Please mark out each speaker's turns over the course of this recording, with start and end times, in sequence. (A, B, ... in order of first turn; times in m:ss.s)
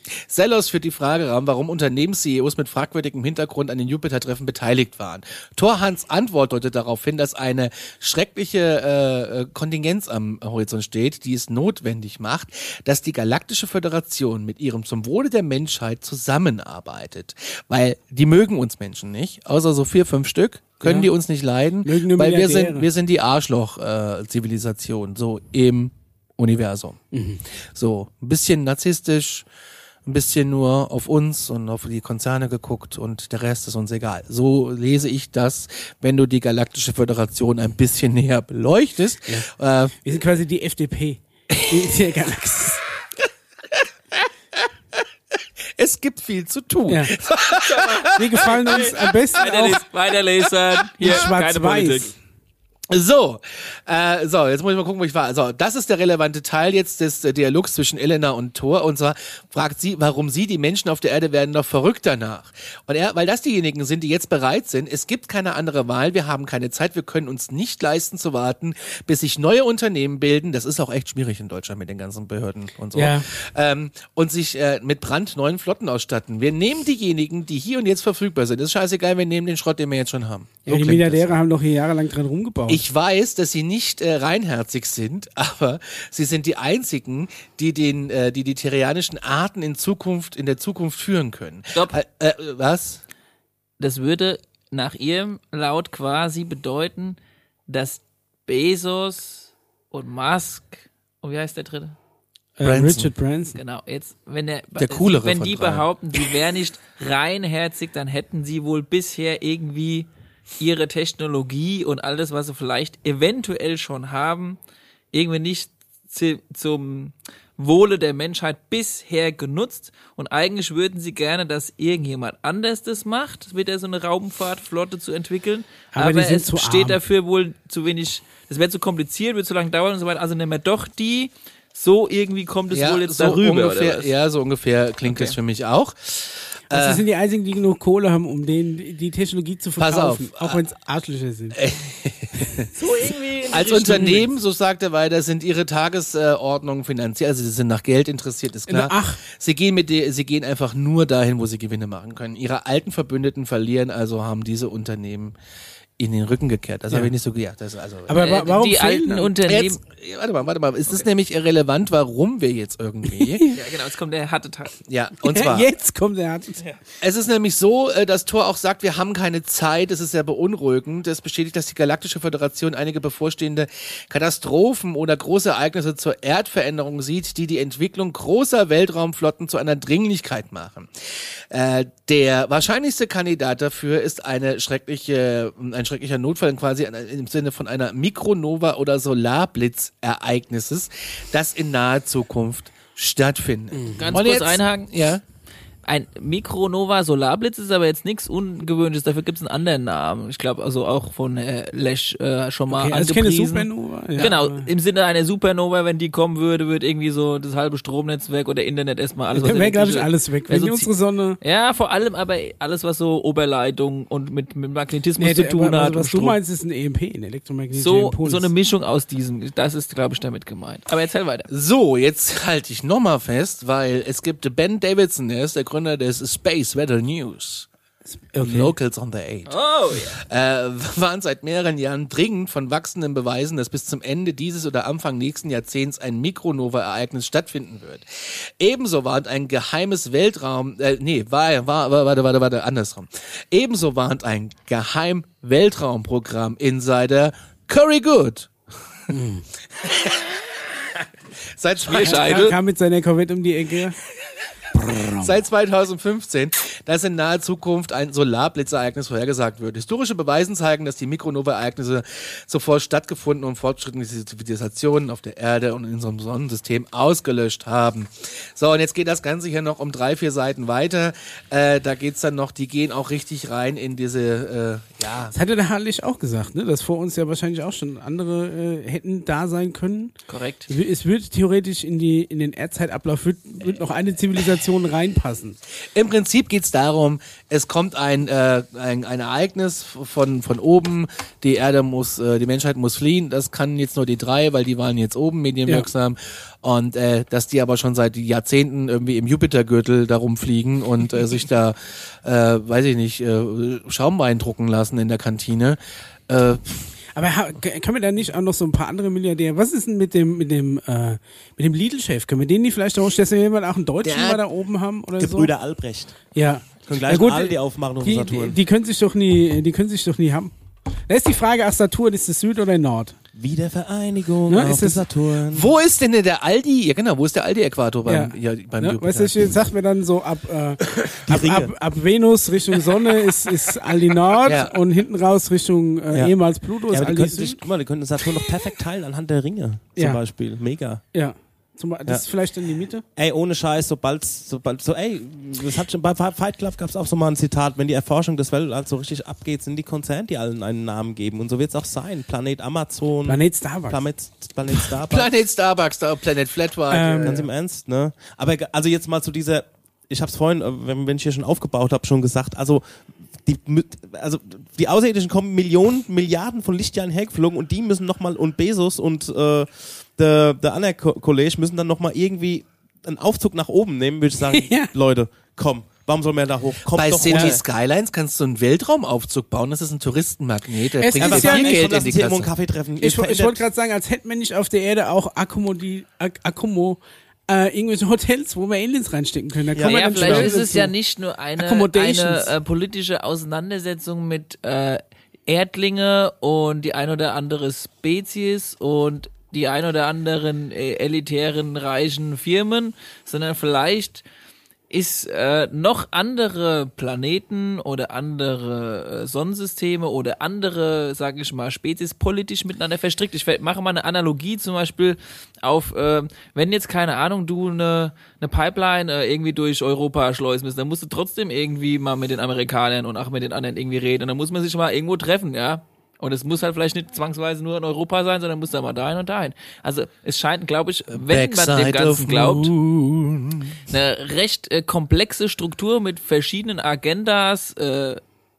0:00.3-0:27.0 A
0:20.8-0:21.1 B
0:21.8-0:22.9 B
0:27.1-0:27.4 B
0:27.7-0:29.4 A
0:30.0-0:39.9 A
0:40.0-0:42.8 B
0:45.8-0:49.1 A
0:46.9-0:47.1 B
0:47.6-0:52.1 C
0:48.1-0:49.8 B
0:50.8-0:51.2 A
0:51.0-0:52.1 B
0:52.9-1:21.4 A
1:12.9-1:13.3 B
1:20.6-1:22.8 B
1:22.7-1:33.0 A
1:33.8-1:42.0 C
1:42.6-1:43.6 B
1:42.6-1:43.1 A
1:43.6-1:50.1 C
1:44.8-1:46.3 A
1:50.6-1:54.6 C
1:55.1-2:14.1 C
2:05.9-2:07.0 B
2:12.7-2:17.0 A
2:15.1-2:15.4 C
2:16.7-2:21.6 B
2:19.8-2:20.6 A
2:21.5-2:22.7 A
2:22.7-2:24.3 C
2:23.5-2:35.3 A
2:28.7-2:29.2 B
2:36.0-2:38.3 A
2:38.1-2:39.3 B
2:38.1-2:39.8 C
2:39.4-2:43.5 A
2:43.2-2:43.6 B
2:43.5-2:44.8 C
2:44.8-2:45.7 A
2:45.2-2:46.6 B
2:47.0-3:15.2 A
3:13.7-3:14.0 B
3:14.0-3:14.9 C
3:15.8-3:30.9 C
3:22.7-3:24.7 B
3:29.3-3:31.4 B
3:31.4-3:36.4 C
3:35.2-3:38.5 B
3:37.7-3:41.5 C
3:41.5-3:47.7 A
3:48.1-3:48.7 B
3:48.4-3:49.5 A
3:49.5-3:50.2 C
3:50.1-4:08.5 A
4:09.1-4:09.4 B
4:09.8-4:10.4 A
4:11.5-4:12.4 A
4:11.8-4:12.6 C
4:12.0-4:14.0 B
4:14.7-4:15.3 B
4:15.2-4:35.3 A
4:35.3-4:40.1 B
4:40.3-4:40.7 C
4:40.7-4:45.6 B
4:45.9-5:06.9 A
5:07.2-5:15.5 B
5:14.0-5:14.4 A
5:15.2-5:16.2 D
5:16.3-5:20.5 B
5:16.8-5:18.6 D
5:21.1-5:23.1 B
5:23.3-5:25.7 D
5:24.5-5:25.0 B
5:25.5-5:29.5 A
5:28.0-5:37.6 B
5:30.8-5:31.1 A
5:31.2-5:31.7 D
5:34.4-5:34.8 A
5:36.1-5:36.4 D
5:36.9-5:41.0 D
5:41.1-5:43.0 B
5:43.1-5:55.3 D
5:53.2-5:54.0 B
5:55.1-5:57.4 A
5:56.9-5:57.5 B
5:57.2-6:17.6 D
6:14.5-6:14.9 B
6:16.9-6:22.5 A
6:17.3-6:17.6 B
6:21.0-6:21.8 B
6:21.2-6:23.6 D
6:23.0-6:30.9 B
6:29.7-6:30.5 D
6:29.8-6:44.2 C
6:31.6-6:32.5 B
6:44.9-7:12.7 C
7:11.1-7:13.8 A
7:13.9-7:18.2 C